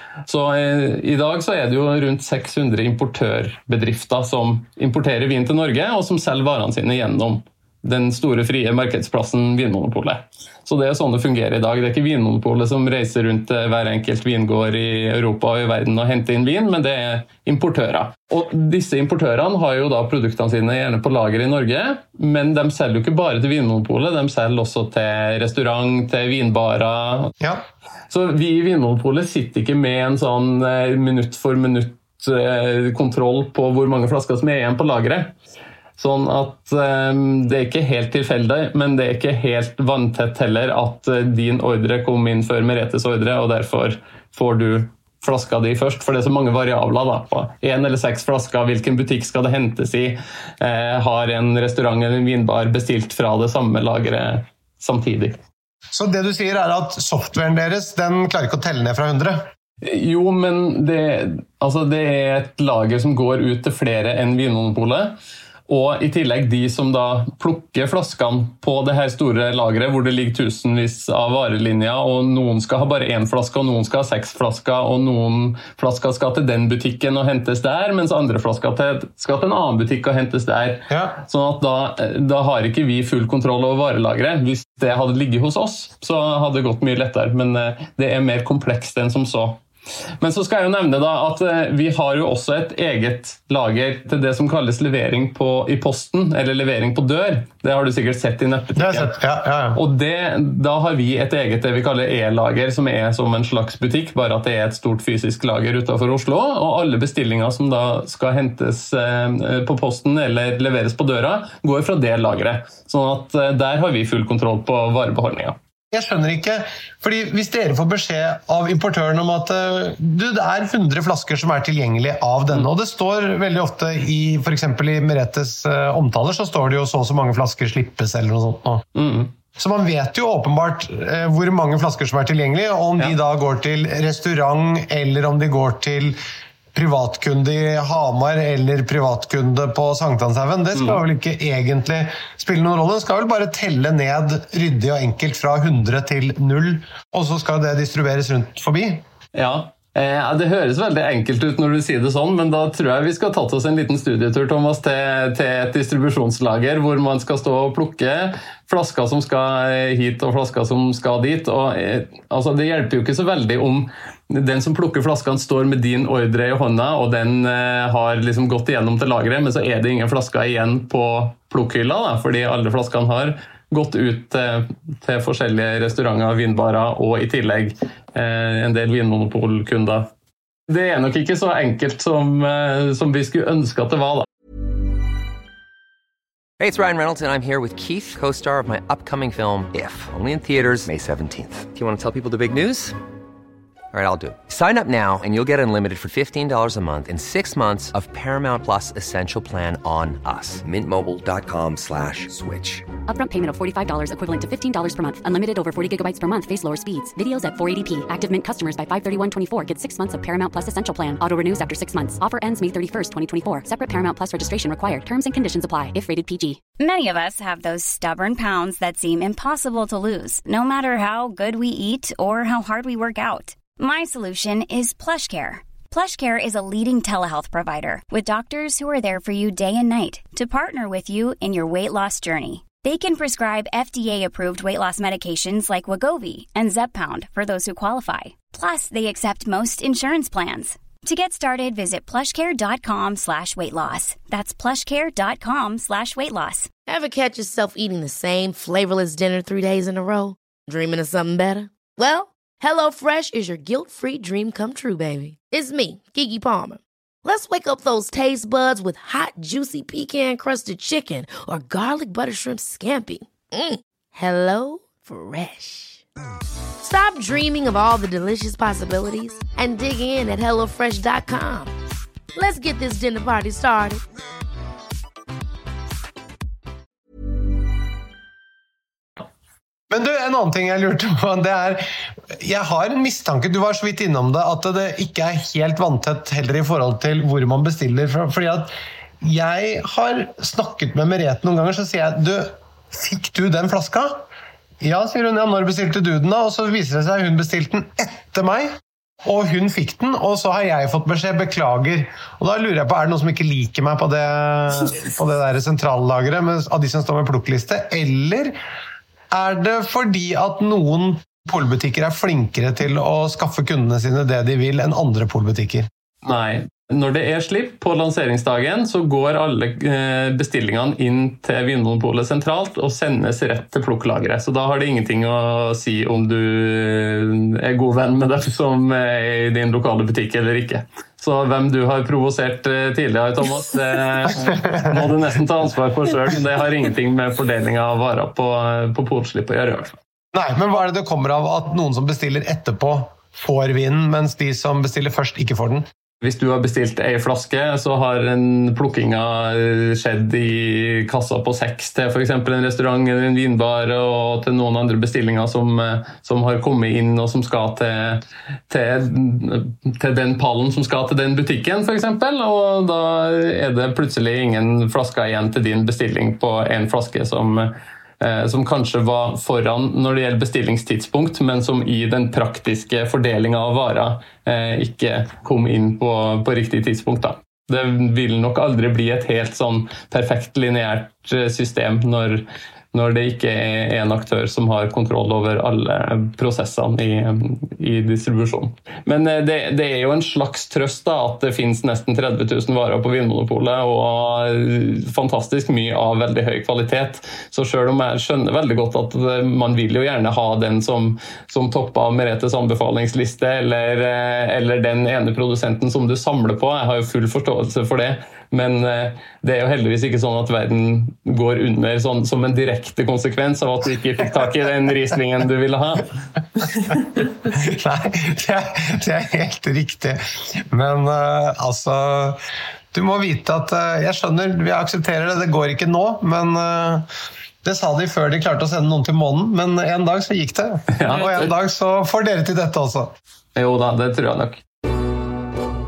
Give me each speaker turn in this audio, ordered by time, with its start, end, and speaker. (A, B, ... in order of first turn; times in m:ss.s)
0:00.3-0:27.3 A
0:28.1-0:35.3 A
0:36.0-0:55.4 A
0:55.9-0:59.5 B
0:59.8-1:05.1 A
1:05.7-1:29.6 A
1:20.9-1:21.2 B
1:30.2-1:39.1 A
1:38.8-1:39.8 B
1:39.7-1:55.6 A
1:55.9-2:08.8 B
2:08.9-2:09.3 A
2:09.6-2:16.2 B
2:16.7-2:29.0 B
2:20.7-2:21.0 A
2:29.3-3:00.1 A
3:00.7-3:04.2 A
3:06.6-3:12.9 C
3:13.9-3:22.9 C
3:23.1-3:36.6 D
3:36.8-4:06.7 E
4:06.9-4:26.0 F
4:26.8-4:31.7 F
4:32.3-4:34.0 F
4:39.9-4:54.2 B
4:54.8-5:08.6 B
5:09.3-5:15.9 B
5:16.2-5:39.9 A
5:34.5-5:35.0 B
5:40.3-5:45.8 B
5:46.2-6:56.8 A
6:57.5-7:02.4 B
7:02.9-7:07.1 B
7:07.6-7:13.1 B
7:10.9-7:11.5 A
7:13.5-7:14.6 A